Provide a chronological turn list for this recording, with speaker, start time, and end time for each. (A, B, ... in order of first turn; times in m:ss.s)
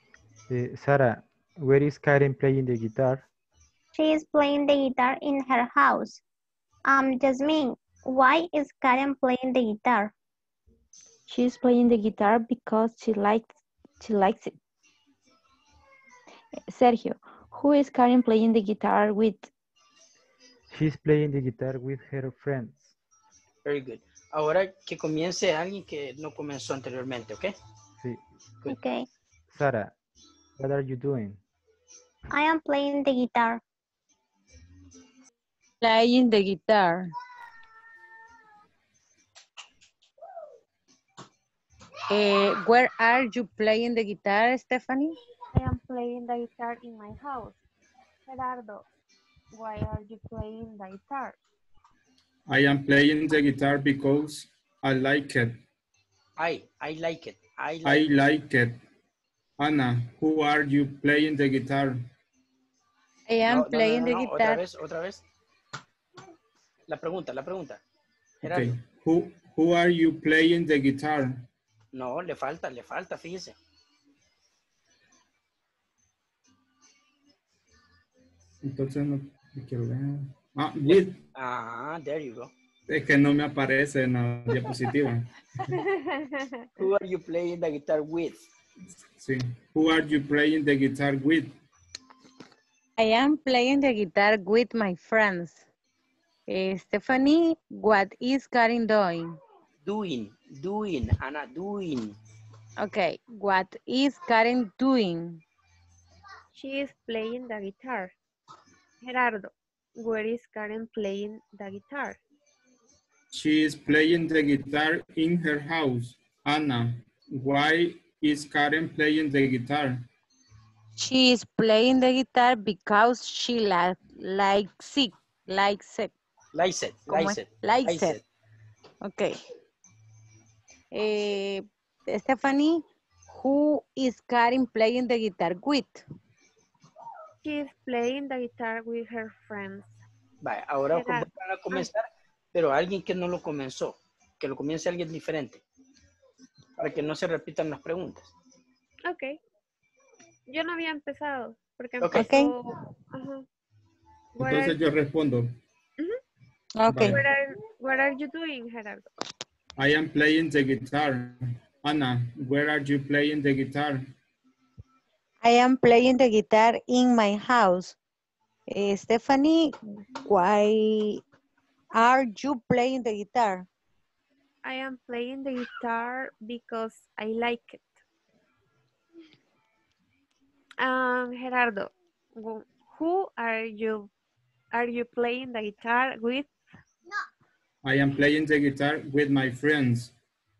0:00.5-0:03.2 A
0:03.9-0:06.2 B
0:06.9-0:10.1 B
0:11.3-0:14.5 C
0:16.7-0:19.5 C
0:20.7-0:22.9 A
0:23.6-0:27.5 D
0:28.6-0:29.0 B
0:29.5-0:29.9 A
0:30.6-0:31.4 A
0:32.3-0:33.6 B
0:35.8-0:37.1 E
0:42.1-0:45.2 E
0:45.5-0:47.6 F
0:48.3-0:48.8 F
0:49.5-0:51.4 F
0:52.5-0:55.6 G
0:56.4-0:58.1 D
0:57.8-0:58.8 G
0:59.6-1:02.0 G
1:03.3-1:04.6 E
1:03.5-1:05.2 D
1:06.9-1:07.8 D
1:08.4-1:08.8 D
1:08.4-1:11.4 G
1:11.9-1:13.6 D
1:18.6-1:21.2 G
1:20.9-1:22.5 D
1:22.9-1:25.3 G
1:26.0-1:26.6 F
1:26.8-1:28.4 D
1:29.2-1:31.5 G
1:33.0-1:35.6 E
1:36.5-1:39.4 E
1:39.8-1:42.2 D
1:42.8-1:45.4 E
1:46.5-1:48.1 F
1:49.0-1:52.2 F
1:53.3-2:00.0 G
2:01.0-2:06.1 E
2:06.5-2:08.2 D
2:07.1-2:08.2 E
2:09.0-2:09.4 E
2:10.9-2:16.0 E
2:17.4-2:19.9 F
2:20.4-2:25.6 D
2:20.9-2:21.9 F
2:26.8-2:28.3 D
2:29.0-2:29.4 F
2:30.5-2:33.4 F
2:32.0-2:32.3 D
2:32.2-2:32.5 E
2:34.3-2:34.8 F
2:34.4-2:35.6 G
2:36.9-2:37.2 G
2:37.0-2:39.0 F
2:39.8-2:44.0 G
2:45.4-2:48.0 E
2:48.7-2:49.7 E
2:50.2-2:51.2 E
2:51.9-2:53.6 E
2:54.6-2:57.8 F
3:00.8-3:04.1 F
3:04.7-3:06.5 F
3:07.8-3:10.1 G